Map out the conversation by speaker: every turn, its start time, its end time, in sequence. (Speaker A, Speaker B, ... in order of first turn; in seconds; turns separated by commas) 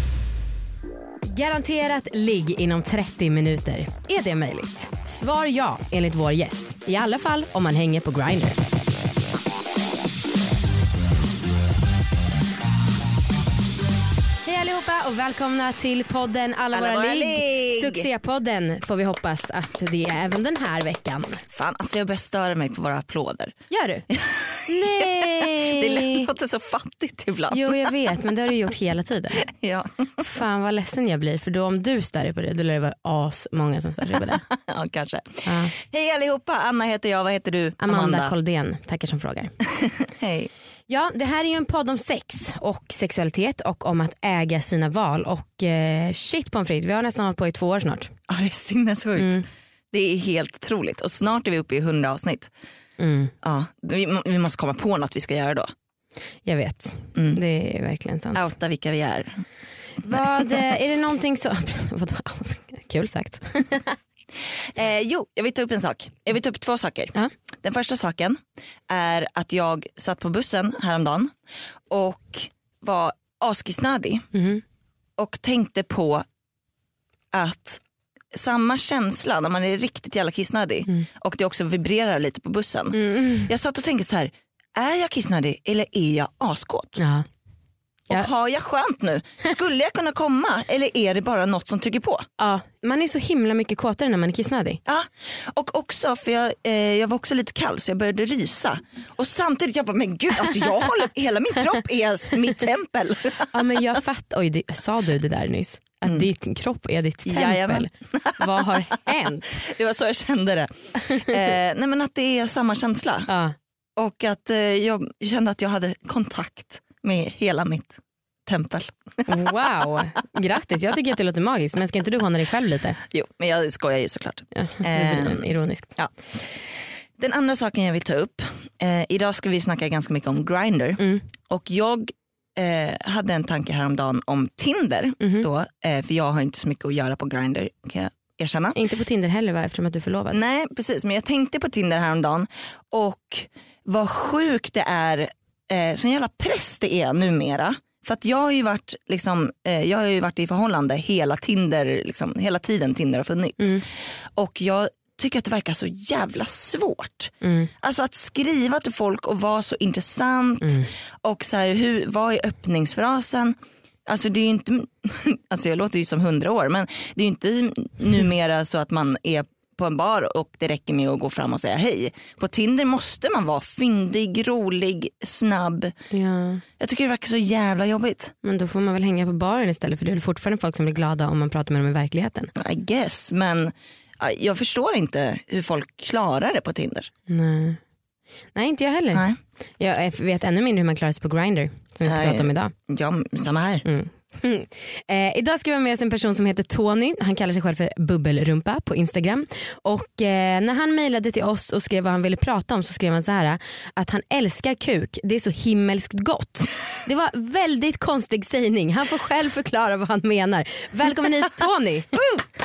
Speaker A: 1.3-8.6, Speaker A: 14.4-21.4, Speaker B: 16.7-18.1, Speaker B: 21.5-23.5, Speaker A: 23.7-24.1, Speaker B: 24.1-27.9, Speaker A: 24.7-26.3, Speaker A: 27.5-29.4, Speaker B: 29.4-30.1, Speaker A: 30.2-34.4, Speaker B: 34.3-38.3, Speaker A: 35.5-35.7, Speaker A: 37.8-39.5, Speaker B: 39.8-40.5, Speaker A: 40.9-48.1, Speaker B: 48.3-52.5, Speaker A: 49.2-49.5, Speaker A: 53.0-53.3, Speaker B: 53.4-55.7, Speaker A: 56.5-58.5, Speaker B: 58.4-59.4, Speaker B: 60.0-60.6, Speaker A: 60.0-64.0, Speaker B: 64.8-71.3, Speaker B: 71.9-74.3, Speaker A: 74.3-74.6, Speaker B: 75.2-76.2, Speaker B: 77.3-77.8, Speaker B: 78.3-87.0, Speaker A: 82.9-83.5, Speaker A: 87.0-87.3, Speaker B: 88.1-92.3, Speaker A: 92.4-94.8, Speaker B: 94.9-103.5, Speaker A: 103.5-109.6, Speaker B: 107.3-113.3, Speaker A: 113.3-113.5, Speaker B: 114.0-119.5, Speaker A: 119.3-123.0, Speaker B: 123.1-138.8, Speaker A: 124.5-125.9, Speaker A: 131.0-131.2, Speaker A: 135.2-135.5, Speaker A: 138.8-140.4, Speaker B: 140.3-175.9, Speaker A: 157.4-157.7, Speaker A: 160.6-160.9, Speaker A: 176.1-176.6, Speaker B: 176.8-178.3, Speaker A: 178.4-182.5, Speaker B: 182.6-187.1, Speaker A: 187.3-187.8, Speaker A: 188.5-189.3, Speaker A: 189.8-192.7, Speaker B: 192.1-193.8, Speaker A: 193.8-212.5